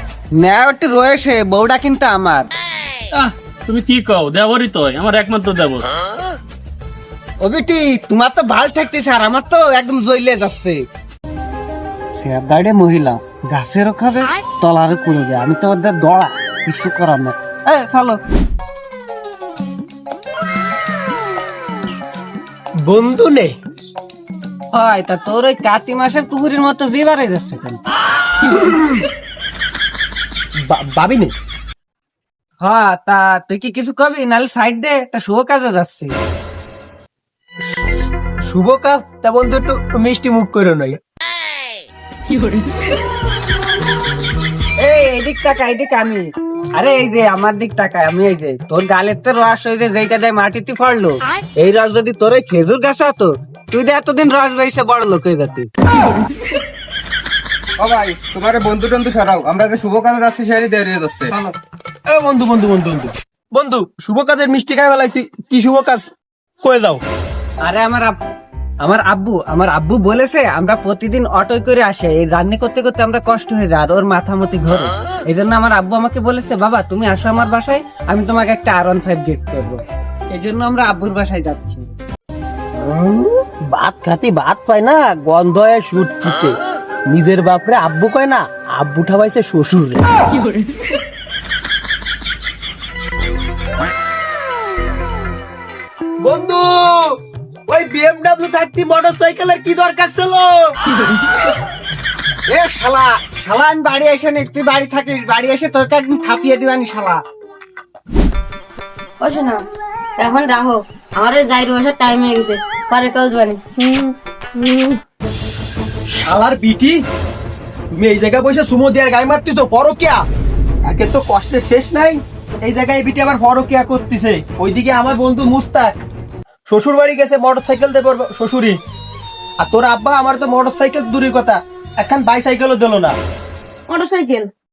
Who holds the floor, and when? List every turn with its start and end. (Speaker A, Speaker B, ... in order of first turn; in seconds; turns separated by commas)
Speaker A: 0.4-2.5, Speaker B: 3.1-5.9, Speaker A: 7.4-10.8, Speaker A: 12.1-18.2, Speaker C: 22.9-23.5, Speaker A: 24.7-27.8, Speaker C: 30.7-31.3, Speaker A: 32.6-36.1, Speaker C: 38.5-41.0, Speaker A: 44.8-55.7, Speaker D: 57.8-61.5, Speaker C: 62.1-66.1, Speaker C: 66.6-67.0, Speaker A: 67.6-68.2, Speaker A: 68.8-81.8, Speaker A: 83.0-83.3, Speaker C: 83.7-86.6, Speaker C: 87.1-90.1, Speaker C: 96.2-97.0, Speaker C: 97.7-100.7, Speaker A: 102.5-107.2, Speaker E: 109.2-109.7, Speaker E: 110.2-115.0, Speaker C: 116.2-117.0, Speaker C: 118.0-120.2, Speaker C: 120.9-125.9, Speaker C: 126.7-128.8, Speaker C: 129.6-133.2, Speaker E: 133.9-134.5